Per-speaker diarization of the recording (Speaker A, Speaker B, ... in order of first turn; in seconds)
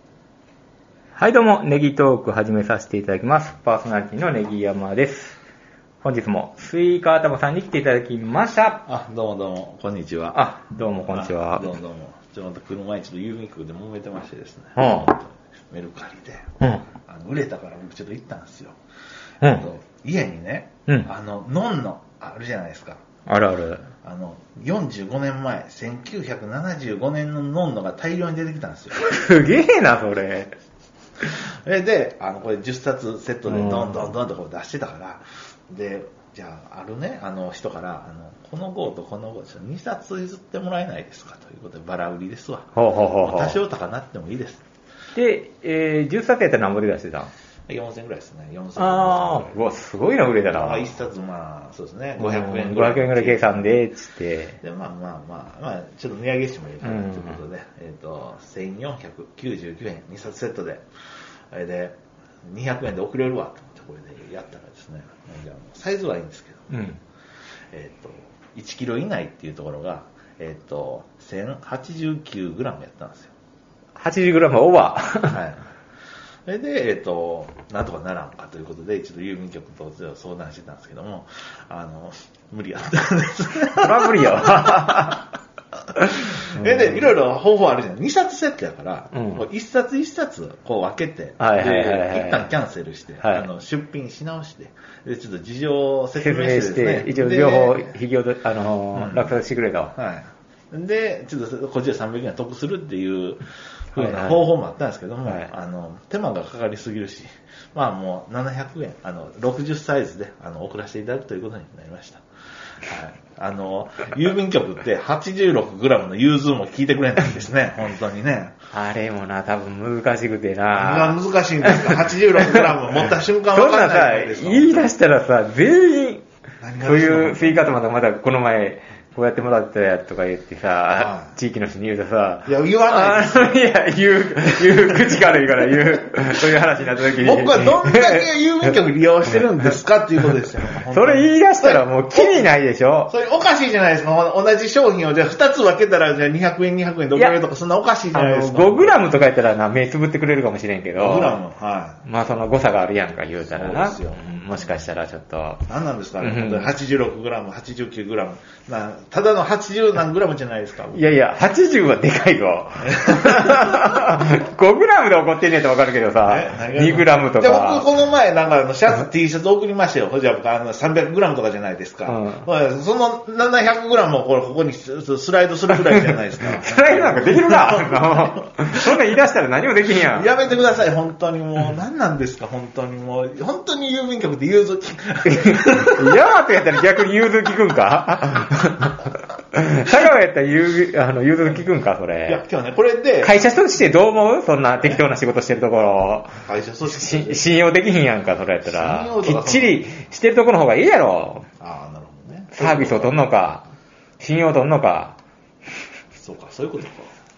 Speaker A: 1.1-5.4, 6.0-8.8, 10.3-11.7, 14.8-15.1, 16.6-16.8, 23.3-23.8, 28.9-30.5, 33.5-34.1, 42.7-43.6, 45.1-47.3, 48.8-50.9, 52.2-54.6, 56.8-57.4, 66.7-67.0, 74.0-75.4, 83.7-85.2, 86.5-87.1, 89.1-89.4, 91.4-92.5, 93.2-93.5, 96.2-99.9, 103.9-104.4, 118.7-126.2, 126.8-138.3, 140.9-143.1, 148.1-151.4, 152.0-155.6, 156.2-156.7, 160.9-167.9, 172.1-172.4, 175.7-180.4, 185.4-192.4, 193.2-201.5, 202.5-203.7, 204.2-205.2
Speaker B: 8.8-16.5, 17.0-18.8, 19.4-23.0, 23.9-29.0, 31.2-44.6, 47.7-49.6, 50.5-53.8, 54.6-60.9, 61.5-66.8, 67.7-73.3, 75.3-75.7, 76.5-85.2, 86.0-98.0, 98.9-99.4, 99.9-118.6, 120.7-124.9, 126.6-127.7, 130.9-131.3, 132.4-133.6, 136.8-142.5, 143.1-149.1, 151.0-152.0, 153.5-154.9, 155.7-161.0, 162.9-163.9, 166.2-178.9, 179.9-186.1, 192.2-193.3, 196.4-197.6, 198.6-199.9, 201.6-203.3, 206.1-207.1